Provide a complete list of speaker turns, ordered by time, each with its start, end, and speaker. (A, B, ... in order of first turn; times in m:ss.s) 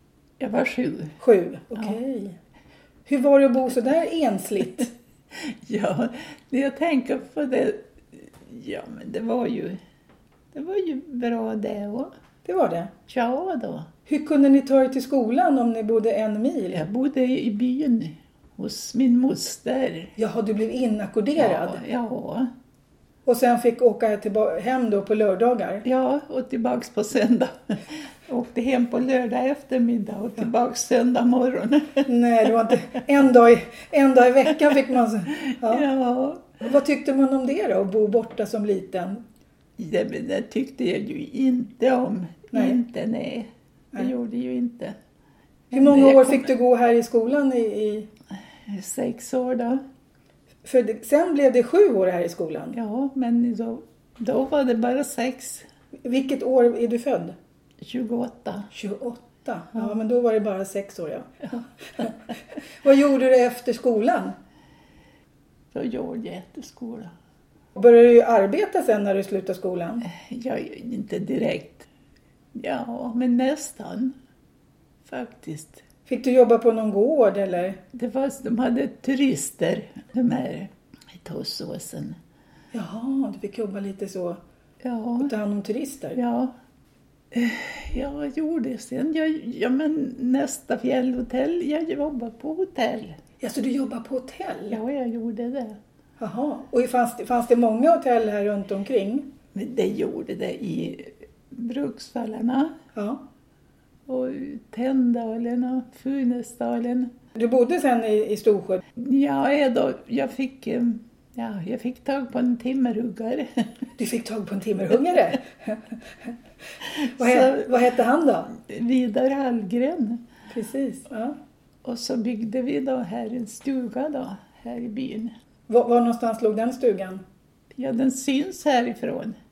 0:00.4-0:01.2 A
0:01.2-0:02.4 B
0:03.1-0:04.9 B
0:05.3-0:09.8 A
0:10.5-0:12.1 A
0:12.4-0:12.9 B
0:13.1-0:13.9 A
0:14.1-0:16.8 B
0:16.7-0:20.1 A
0:20.2-0:21.8 B
0:21.4-0:22.5 A
0:23.3-0:25.8 B
0:25.8-0:32.1 A
0:32.1-0:35.9 B
0:35.5-0:36.5 A
0:36.6-0:39.2 B
0:39.8-0:45.0 A
0:45.7-0:46.5 A
0:45.7-0:48.1 B
0:48.7-0:49.8 A
0:50.6-0:52.8 B
0:52.7-0:55.7 A
0:56.0-0:57.4 B
0:57.8-0:58.7 A
0:58.7-1:02.2 B
1:02.8-1:04.4 B
1:05.7-1:07.1 A
1:07.8-1:10.1 B
1:10.0-1:11.9 A
1:12.6-1:14.2 A
1:15.1-1:15.8 A
1:16.1-1:17.8 B
1:17.9-1:22.2 A
1:22.7-1:24.4 B
1:24.8-1:25.3 A
1:25.2-1:26.2 B
1:26.2-1:26.5 A
1:27.3-1:33.2 A
1:33.4-1:34.8 B
1:34.7-1:35.8 A
1:36.2-1:39.3 B
1:39.5-1:42.8 A
1:43.0-1:43.2 B
1:44.1-1:47.1 A
1:47.4-1:48.8 B
1:49.0-1:53.7 A
1:54.0-1:55.8 B
1:56.9-1:57.7 A
1:57.0-1:58.6 B
1:58.6-2:00.2 A
2:00.5-2:01.4 B
2:01.8-2:05.3 A
2:05.7-2:07.2 B
2:07.8-2:09.4 A